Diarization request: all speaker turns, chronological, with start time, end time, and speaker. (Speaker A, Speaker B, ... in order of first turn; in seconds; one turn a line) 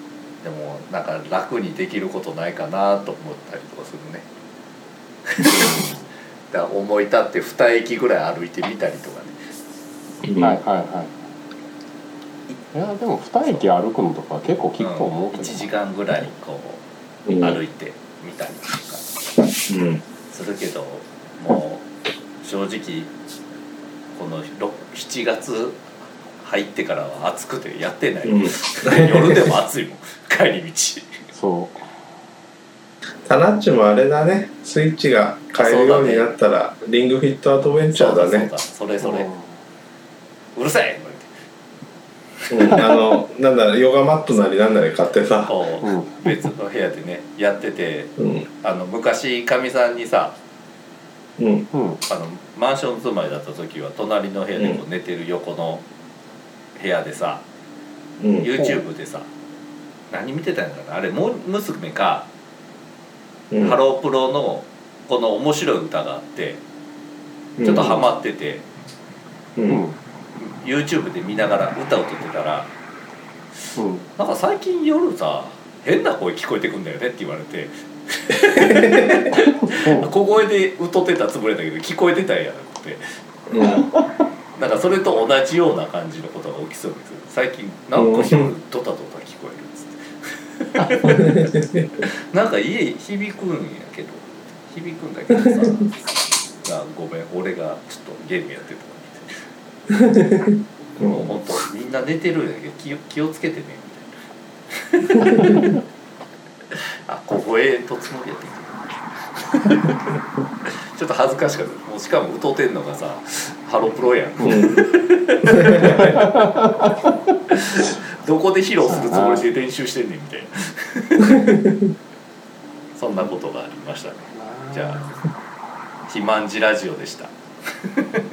Speaker A: 0.4-4.2
Speaker A: 5.4-5.8
Speaker B: 5.4-6.1
Speaker A: 6.5-9.4
Speaker C: 10.2-10.6
Speaker B: 10.4-11.2
Speaker B: 12.7-16.2
Speaker A: 13.4-13.7
Speaker A: 14.8-16.8
Speaker C: 17.3-17.6
Speaker A: 17.4-19.1
Speaker C: 19.7-20.0
Speaker A: 20.3-21.9
Speaker A: 22.4-23.1
Speaker A: 24.1-25.8
Speaker A: 26.4-31.1
Speaker C: 28.2-29.5
Speaker B: 31.3-31.9
Speaker C: 33.2-38.5
Speaker A: 35.6-36.3
Speaker A: 37.9-39.3
Speaker B: 39.0-39.6
Speaker A: 40.5-41.3
Speaker C: 42.5-45.5
Speaker A: 45.4-50.4
Speaker B: 45.8-46.5
Speaker C: 48.2-48.5
Speaker C: 51.4-51.7
Speaker B: 51.7-52.0
Speaker A: 52.0-55.8
Speaker C: 54.6-54.8
Speaker A: 56.8-57.4
Speaker C: 58.2-58.5
Speaker A: 58.4-59.3
Speaker B: 58.5-58.9
Speaker A: 60.1-62.3
Speaker C: 63.5-63.8
Speaker A: 63.6-66.6
Speaker C: 67.6-68.0
Speaker A: 67.6-68.7
Speaker B: 67.7-68.0
Speaker C: 69.5-69.8
Speaker B: 69.7-70.0
Speaker A: 70.4-72.7
Speaker B: 73.8-74.1
Speaker A: 74.2-83.0
Speaker C: 78.7-79.0
Speaker B: 79.3-80.1
Speaker C: 83.5-83.8
Speaker B: 83.6-84.2
Speaker A: 84.5-91.4
Speaker C: 87.9-88.5
Speaker C: 91.1-91.9
Speaker A: 92.0-96.0
Speaker A: 96.6-99.5
Speaker C: 100.0-101.6
Speaker A: 101.0-104.1
Speaker A: 104.7-105.7
Speaker A: 107.0-108.9
Speaker A: 109.5-110.0
Speaker A: 110.9-116.3
Speaker B: 114.4-114.7
Speaker C: 114.4-114.8
Speaker C: 115.7-116.1
Speaker B: 115.8-117.3
Speaker A: 117.5-121.3
Speaker B: 118.8-119.5
Speaker A: 122.9-125.0
Speaker B: 124.3-125.2
Speaker A: 126.1-127.3